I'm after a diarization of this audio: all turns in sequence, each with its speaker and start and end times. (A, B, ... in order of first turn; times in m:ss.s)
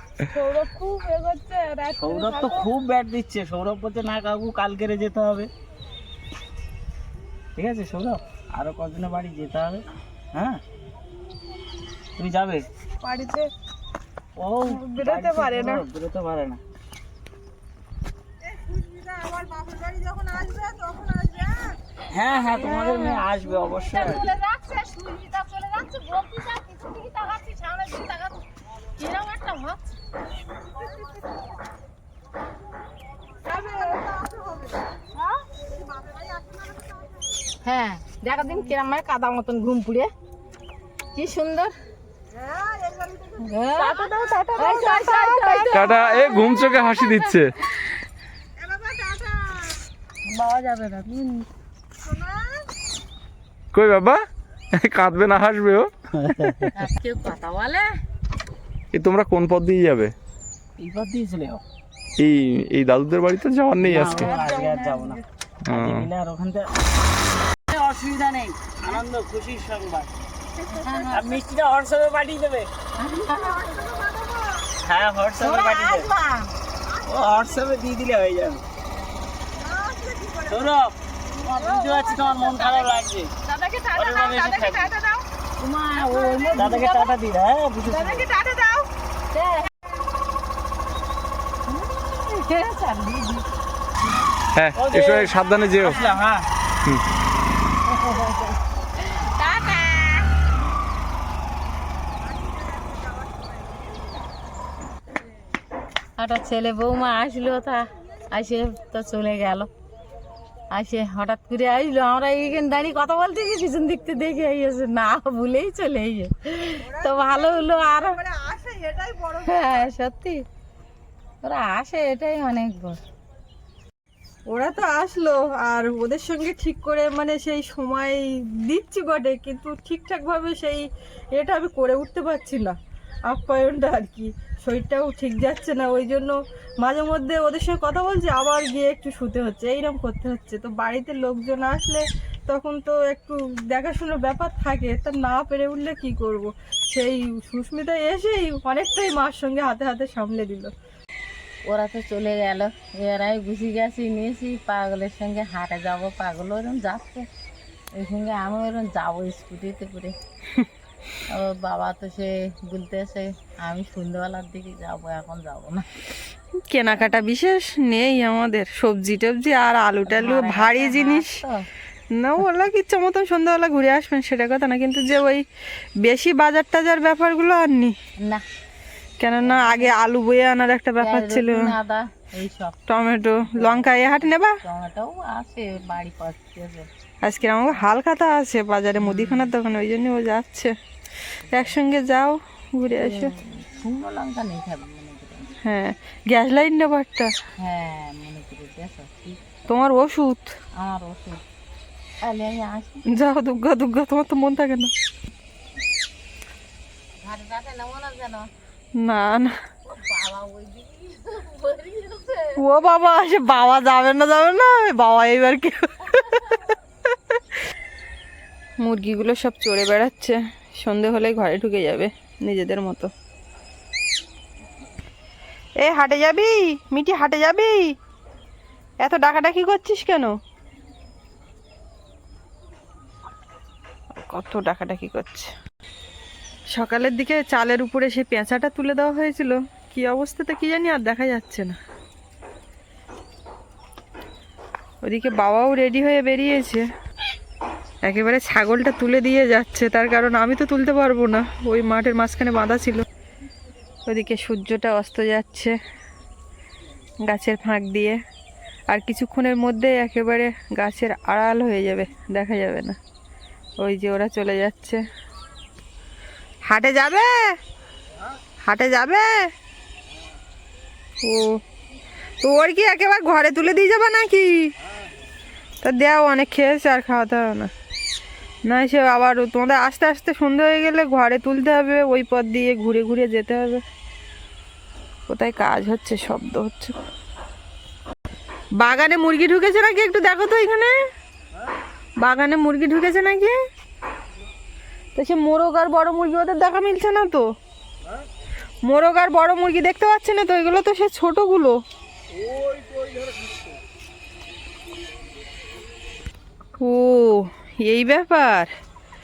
0:00.3-0:02.7 A
0:01.9-0:05.5 B
0:07.6-0:10.6 B
0:12.2-0:12.6 B
0:13.0-0:13.5 C
0:14.4-0:16.6 B
0:14.6-0:15.8 C
0:18.4-0:21.8 C
0:22.1-0:24.3 B
0:22.3-0:28.4 A
0:29.0-0:29.9 A
0:33.4-0:34.8 C
0:35.7-0:37.1 C
0:37.6-0:40.1 A
0:41.1-0:41.7 A
0:42.3-0:46.0 C
0:43.4-0:47.3 A
0:45.7-0:47.5 D
0:48.6-0:49.8 C
0:50.3-0:51.5 A
0:52.0-0:52.6 C
0:53.7-0:54.2 D
0:54.7-0:56.7 D
0:56.2-0:56.7 B
0:56.7-0:58.0 A
0:58.9-1:00.1 D
1:00.8-1:01.6 B
1:02.2-1:04.3 D
1:03.8-1:06.7 B
1:04.1-1:05.2 A
1:05.6-1:06.1 D
1:07.7-1:10.1 B
1:10.7-1:11.4 A
1:11.1-1:12.7 B
1:13.0-1:14.0 A
1:13.1-1:14.7 C
1:14.8-1:16.1 B
1:15.4-1:16.5 A
1:16.9-1:17.5 C
1:17.0-1:18.6 B
1:19.6-1:20.6 C
1:20.5-1:23.3 B
1:21.4-1:24.8 A
1:23.9-1:24.9 B
1:24.8-1:25.2 C
1:25.6-1:27.2 A
1:26.1-1:28.3 B
1:27.8-1:28.3 A
1:28.2-1:28.9 C
1:29.3-1:29.7 A
1:31.7-1:33.4 A
1:34.5-1:36.0 D
1:34.8-1:36.4 B
1:37.9-1:40.3 A
1:42.6-1:43.6 C
1:46.2-1:49.7 A
1:50.7-1:58.2 A
1:56.8-1:59.9 C
1:59.4-2:00.4 A
2:01.4-2:03.0 A
2:04.5-2:30.7 C
2:31.6-2:37.2 A
2:38.0-2:40.1 A
2:41.3-2:45.8 A
2:46.7-2:51.4 C
2:50.1-2:51.6 A
2:52.2-2:55.4 C
2:56.0-2:58.0 C
2:58.2-2:58.4 A
2:59.2-3:01.7 C
2:59.4-3:00.0 A
3:01.0-3:02.8 A
3:02.9-3:04.6 C
3:03.4-3:06.9 A
3:07.2-3:10.7 C
3:09.0-3:09.5 A
3:11.5-3:13.3 C
3:12.9-3:15.5 A
3:15.6-3:17.3 C
3:17.6-3:19.5 A
3:19.7-3:20.5 C
3:20.7-3:21.4 A
3:22.2-3:23.0 A
3:23.1-3:24.9 C
3:27.2-3:28.5 A
3:29.0-3:29.5 C
3:29.9-3:32.6 A
3:32.6-3:36.6 C
3:37.1-3:37.4 C
3:38.8-3:43.1 C
3:45.8-3:47.9 C
3:49.0-3:50.3 C
3:54.2-3:55.5 C
3:56.7-4:01.8 C
4:05.0-4:06.8 C
4:08.0-4:13.0 C
4:14.1-4:15.8 C
4:17.2-4:18.2 C
4:18.9-4:23.0 C
4:23.8-4:25.0 C
4:26.6-4:27.6 C
4:28.6-4:29.5 C
4:31.2-4:31.6 C
4:32.4-4:34.7 C
4:35.8-4:37.7 C
4:38.6-4:43.8 C
4:45.3-4:47.0 C
4:48.8-4:50.9 C
4:52.2-4:53.6 C
4:55.1-4:57.5 C
4:58.8-5:01.8 C
5:02.7-5:03.2 B
5:06.8-5:08.7 C